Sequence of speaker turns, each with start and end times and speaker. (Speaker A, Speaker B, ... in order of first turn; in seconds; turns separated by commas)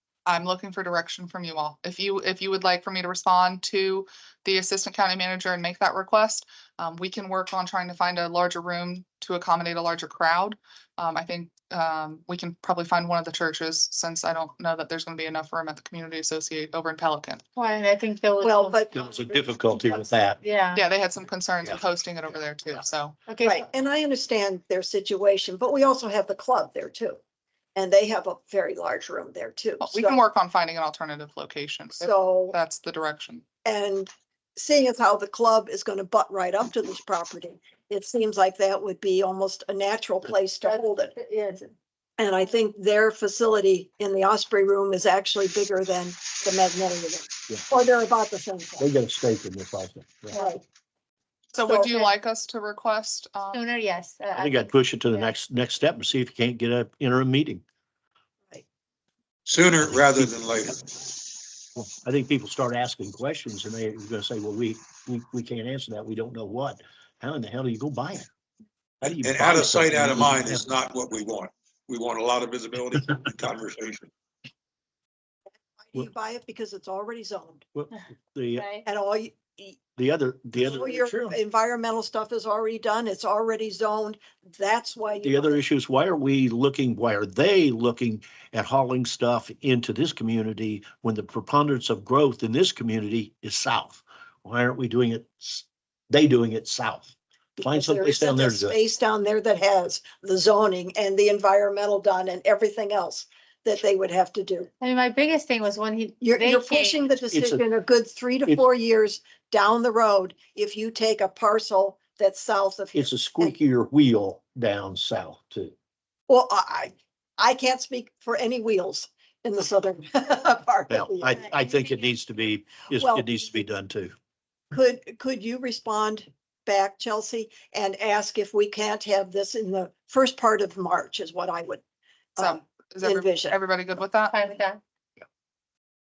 Speaker A: 0.2-17.4, Speaker B: 17.5-18.8, Speaker C: 18.4-19.1, Speaker D: 18.9-20.4, Speaker B: 20.4-20.8, Speaker A: 20.7-23.1, Speaker B: 23.3-23.6, Speaker C: 23.4-27.2, Speaker C: 27.7-30.2, Speaker A: 29.8-33.4, Speaker C: 32.0-32.6, Speaker C: 33.6-41.1, Speaker B: 40.6-41.7, Speaker C: 42.2-48.9, Speaker D: 48.8-50.4, Speaker B: 50.3-50.6, Speaker C: 50.4-50.6, Speaker A: 51.5-53.6, Speaker C: 51.6-51.9, Speaker B: 51.9-52.1, Speaker B: 53.5-55.3, Speaker D: 54.4-57.6, Speaker E: 59.5-60.8, Speaker D: 59.8-60.7, Speaker D: 61.8-68.3, Speaker D: 69.0-70.6, Speaker E: 69.0-74.1, Speaker C: 75.8-77.6, Speaker D: 77.7-78.6, Speaker B: 78.6-78.9, Speaker C: 78.8-79.8, Speaker D: 80.0-81.4, Speaker C: 80.6-85.6, Speaker D: 85.2-98.8, Speaker C: 97.6-104.7, Speaker B: 104.8-107.1, Speaker C: 106.2-113.5, Speaker D: 107.3-107.6, Speaker D: 112.9-115.7, Speaker C: 116.3-121.5, Speaker D: 120.9-124.1, Speaker C: 123.0-123.3, Speaker C: 124.7-131.8, Speaker C: 132.3-133.6, Speaker A: 132.4-134.4, Speaker B: 134.2-134.8